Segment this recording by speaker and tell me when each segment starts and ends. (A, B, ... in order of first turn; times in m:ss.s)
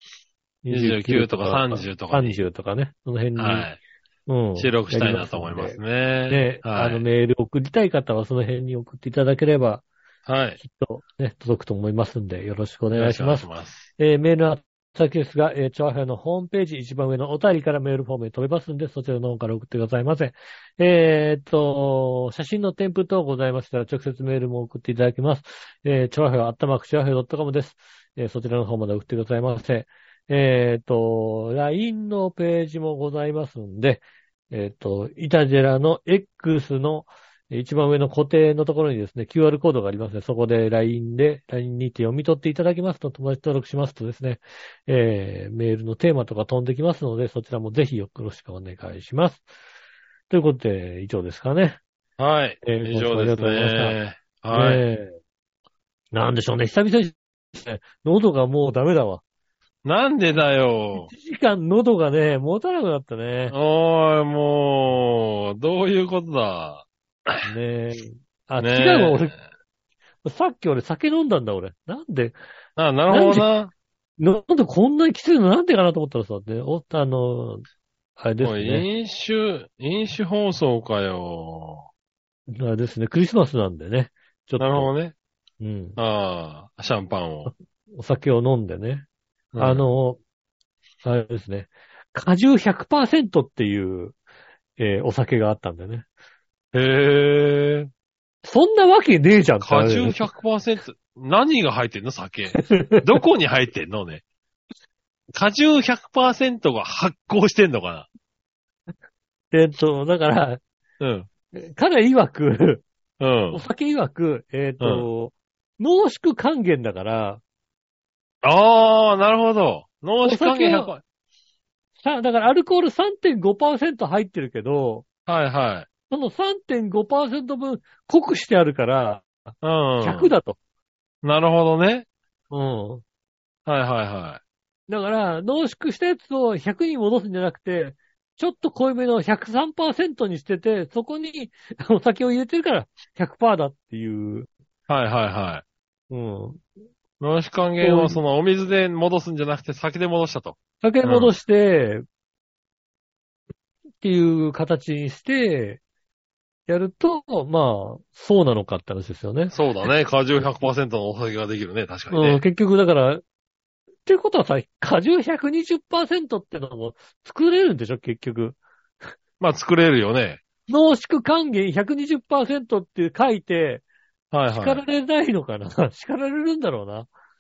0:00.6-0:03.7 A
0:00.7-0:02.4 B
0:03.4-0:03.8 B
0:04.3-0:09.8 A
0:04.6-0:07.0 B
0:10.2-0:10.6 B
0:10.6-0:49.4 A
0:12.9-0:13.9 B
0:50.3-0:51.8 A
0:52.2-0:54.8 B
0:52.6-0:54.0 A
0:54.5-0:55.2 A
0:56.1-0:59.2 A
0:59.8-1:01.1 B
1:01.0-1:03.5 A
1:03.5-1:07.4 B
1:07.4-1:09.3 A
1:08.6-1:09.4 B
1:10.2-1:12.4 A
1:12.8-1:13.7 B
1:13.1-1:13.5 A
1:14.2-1:17.6 A
1:18.2-1:18.8 A
1:18.4-1:21.8 B
1:22.5-1:24.9 A
1:24.6-1:25.1 B
1:25.6-1:26.0 A
1:26.0-1:27.5 B
1:27.4-1:30.2 A
1:29.5-1:29.9 B
1:31.0-1:34.2 A
1:34.8-1:36.0 A
1:36.7-1:37.9 B
1:38.4-1:40.3 A
1:39.6-1:44.2 B
1:42.5-1:43.1 A
1:45.3-1:48.1 B
1:49.5-1:50.6 A
1:51.0-1:51.3 B
1:51.5-1:52.8 A
1:53.2-1:53.6 B
1:53.5-1:57.4 A
1:54.8-1:55.1 B
1:58.4-2:01.0 B
2:00.2-2:00.9 A
2:02.0-2:05.0 A
2:05.3-2:05.9 B
2:06.1-2:09.3 A
2:09.6-2:10.3 B
2:10.0-2:10.6 A
2:11.2-2:12.0 B
2:12.5-2:13.0 A
2:13.6-2:14.4 B
2:14.9-2:24.5 A
2:24.9-2:25.6 B
2:26.1-2:26.6 A
2:27.2-2:31.3 B
2:27.8-2:28.2 A
2:30.8-2:32.0 A
2:34.0-2:35.8 A
2:36.7-2:39.6 A
2:39.5-2:42.4 B
2:42.1-2:43.2 A
2:44.0-2:48.6 A
2:49.4-2:50.4 B
2:50.7-2:53.8 A
2:54.3-2:54.8 B
2:54.5-2:57.1 A